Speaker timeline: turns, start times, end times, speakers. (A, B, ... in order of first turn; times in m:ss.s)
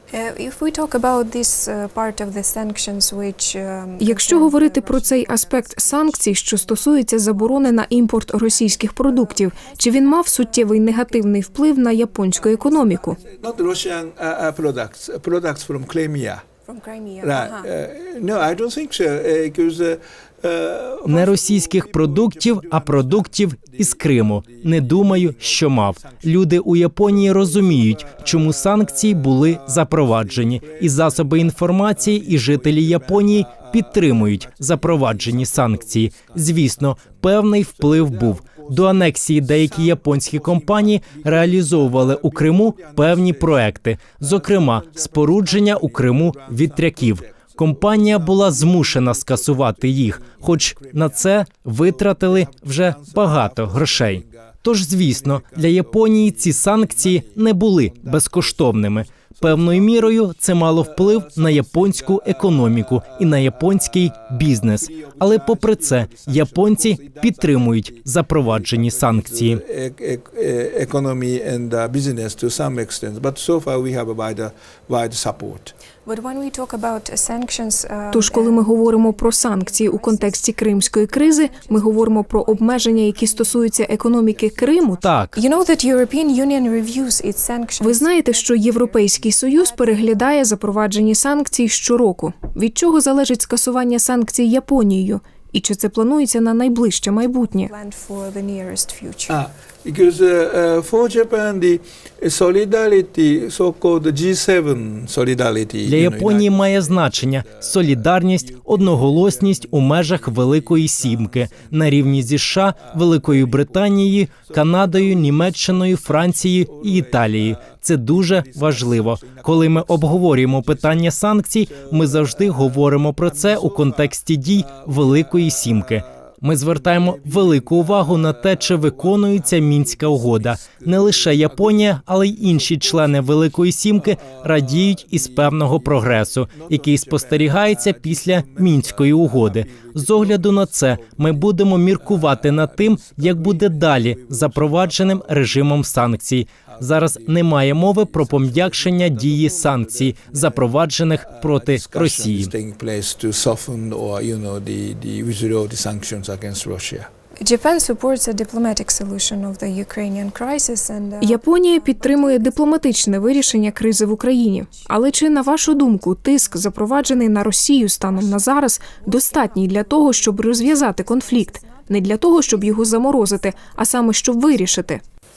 0:00.1-0:13.2 A
0:04.0-0:13.2 B
0:13.2-0:16.4 C
0:16.6-0:17.7 A
0:17.2-0:26.5 C
0:21.1-1:09.6 D
0:27.1-1:15.7 C
1:16.0-1:30.6 A
1:18.1-1:25.0 B
1:25.0-1:25.4 D
1:27.8-1:37.7 B
1:37.6-1:39.4 A
1:39.3-2:25.9 C
1:45.8-2:32.5 D
2:26.7-2:37.1 C
2:37.4-2:53.9 A
2:41.2-2:55.0 B